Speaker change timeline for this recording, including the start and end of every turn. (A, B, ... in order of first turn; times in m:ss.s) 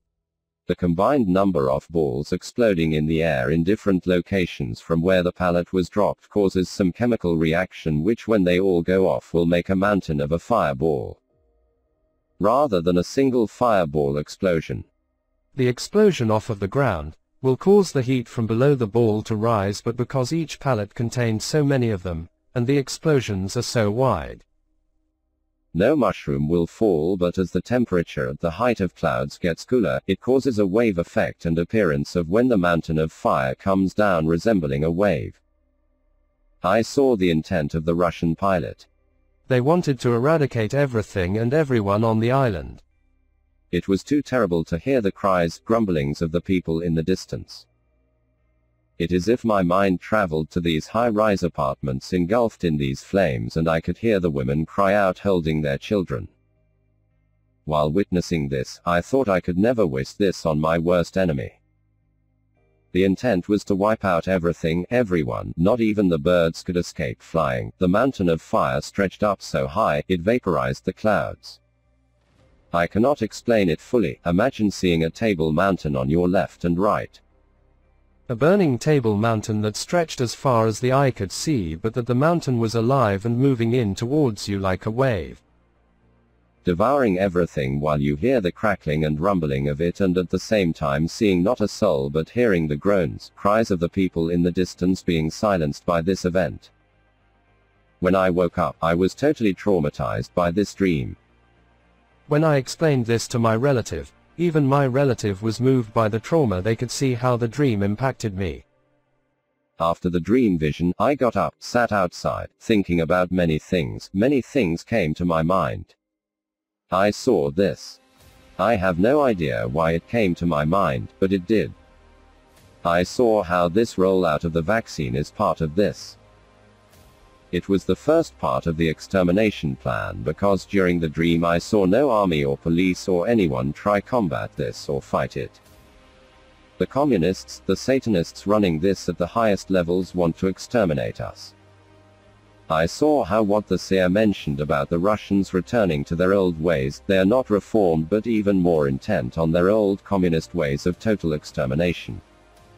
0:00.7-0:11.2 A
0:12.4-0:14.9 A
0:15.5-0:24.4 B
0:25.7-0:35.4 A
0:36.6-0:38.9 A
0:39.5-0:42.8 B
0:43.7-0:47.7 A
0:49.0-0:56.3 A
0:57.6-1:01.6 A
1:02.9-1:11.6 A
1:12.7-1:17.2 A
1:18.3-1:25.4 B
1:26.6-1:36.7 A
1:38.0-1:41.2 A
1:42.3-1:48.6 B
1:49.8-1:55.9 A
1:56.9-1:58.0 A
1:58.6-2:01.8 A
2:02.8-2:06.2 A
2:07.5-2:15.6 A
2:16.8-2:21.5 A
2:22.7-2:32.2 A